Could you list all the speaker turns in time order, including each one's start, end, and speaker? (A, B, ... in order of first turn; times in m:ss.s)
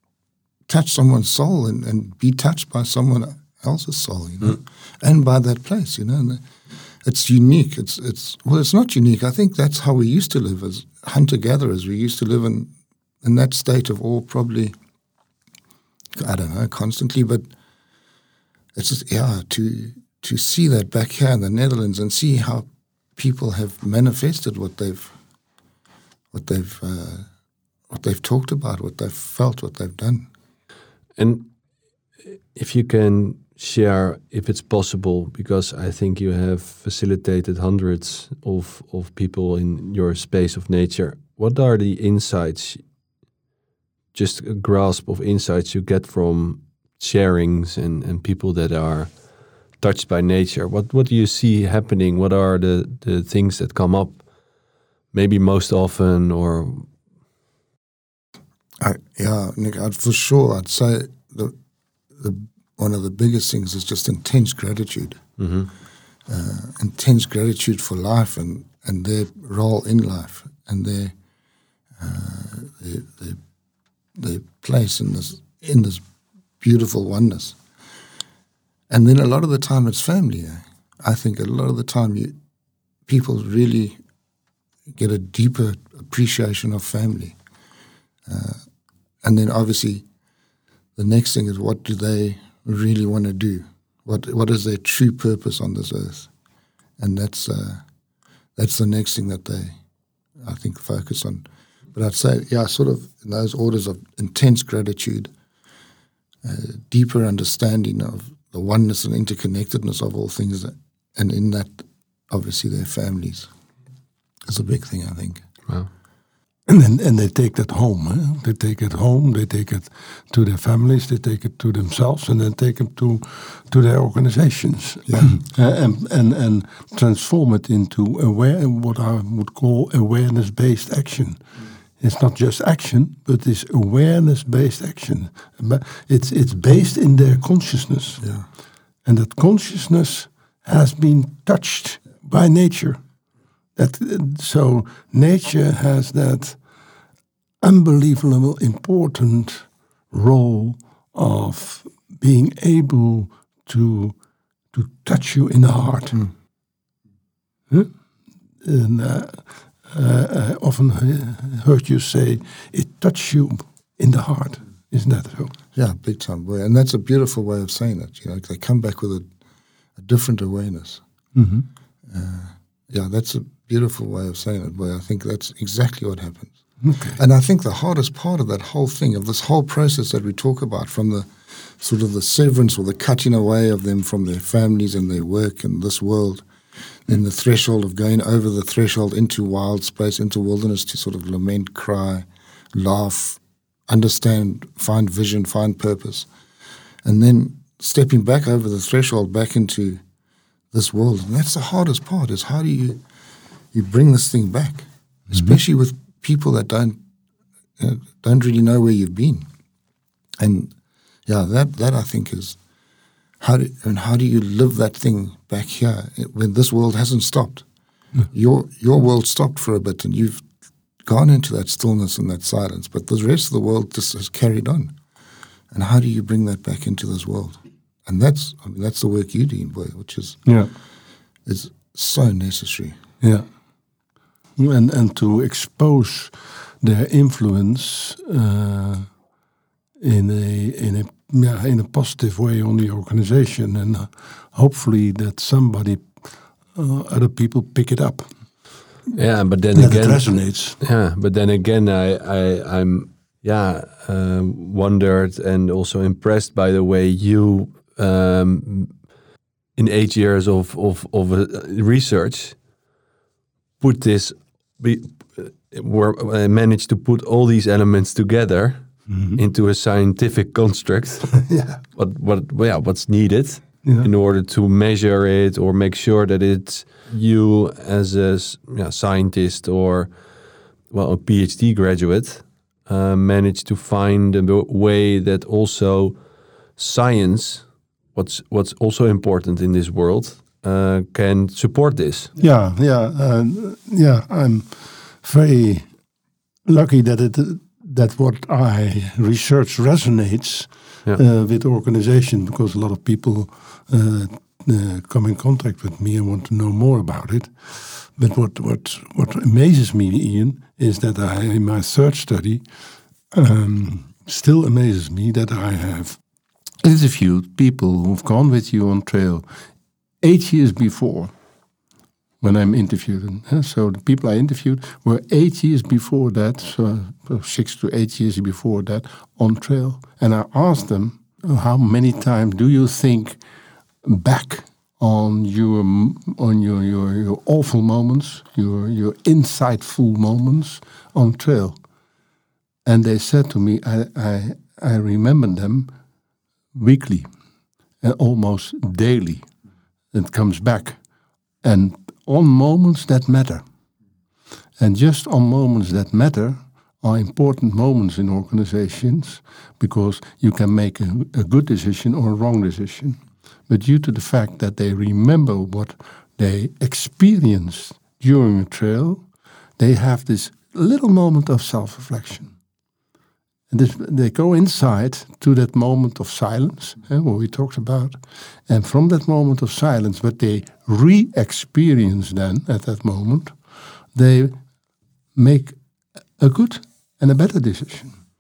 0:00.7-0:06.4 A
0:07.0-0:12.7 A
0:13.2-0:14.7 A
0:16.1-0:17.5 A
0:18.8-0:25.2 A
0:26.3-0:27.3 A
0:27.9-0:30.3 A
0:31.2-0:31.5 B
0:32.5-0:42.8 B
0:44.1-0:49.2 B
0:49.8-0:54.2 B
0:55.1-0:56.9 B
0:58.8-1:01.5 A
1:02.2-1:05.2 A
1:05.4-1:05.7 B
1:06.3-1:11.1 A
1:12.0-1:13.4 A
1:14.2-1:16.0 A
1:16.6-1:17.6 A
1:18.9-1:22.3 A
1:23.1-1:24.0 A
1:24.9-1:27.4 A
1:28.3-1:28.6 A
1:29.2-1:30.0 A
1:31.0-1:36.3 A
1:37.0-1:37.8 A
1:38.6-1:39.8 A
1:40.4-1:45.3 A
1:46.4-1:53.5 A
1:54.5-1:55.4 A
1:56.7-2:11.4 C
2:05.1-2:05.3 A
2:12.0-2:18.2 C
2:18.2-2:18.4 A
2:19.0-2:23.0 C
2:23.8-2:26.6 C
2:27.6-2:34.2 C
2:34.7-2:36.2 C
2:38.6-2:45.5 C
2:45.7-2:49.3 A
2:50.0-2:51.0 A
2:51.3-2:51.6 C
2:52.1-2:56.6 A
2:56.8-2:57.2 C
2:57.2-3:06.4 A
3:07.0-3:16.3 A
3:17.0-3:20.0 A
3:20.7-3:23.0 A
3:23.7-3:27.0 A
3:25.3-3:25.6 C
3:27.8-3:29.5 A
3:30.4-3:30.7 A
3:31.3-3:32.6 A
3:33.4-3:37.6 A
3:38.3-3:40.4 A
3:41.0-3:44.9 A
3:45.7-3:50.4 A
3:50.4-3:50.7 C
3:51.4-3:53.0 A
3:53.2-3:53.4 C
3:54.6-3:59.1 C
4:00.0-4:08.3 C
4:09.1-4:18.9 B
4:09.7-4:10.8 C
4:19.8-4:22.6 B
4:23.8-4:40.1 B
4:29.1-4:29.4 C
4:31.4-4:31.8 C
4:33.8-4:34.1 C
4:40.9-4:46.2 B
4:46.8-4:52.3 B
4:52.4-4:55.9 C
4:56.6-5:12.6 C
5:13.3-5:16.2 C
5:16.8-5:19.4 C
5:20.2-5:21.3 C
5:22.4-5:33.4 C
5:34.0-5:41.8 C
5:42.8-5:45.9 C
5:46.7-5:47.3 C
5:48.0-5:49.4 C
5:50.1-5:51.0 C
5:51.6-5:53.6 C
5:54.8-6:09.3 C
6:09.8-6:12.5 C
6:13.7-6:23.6 C
6:24.1-6:24.6 C
6:25.3-6:25.8 C
6:26.4-6:28.2 C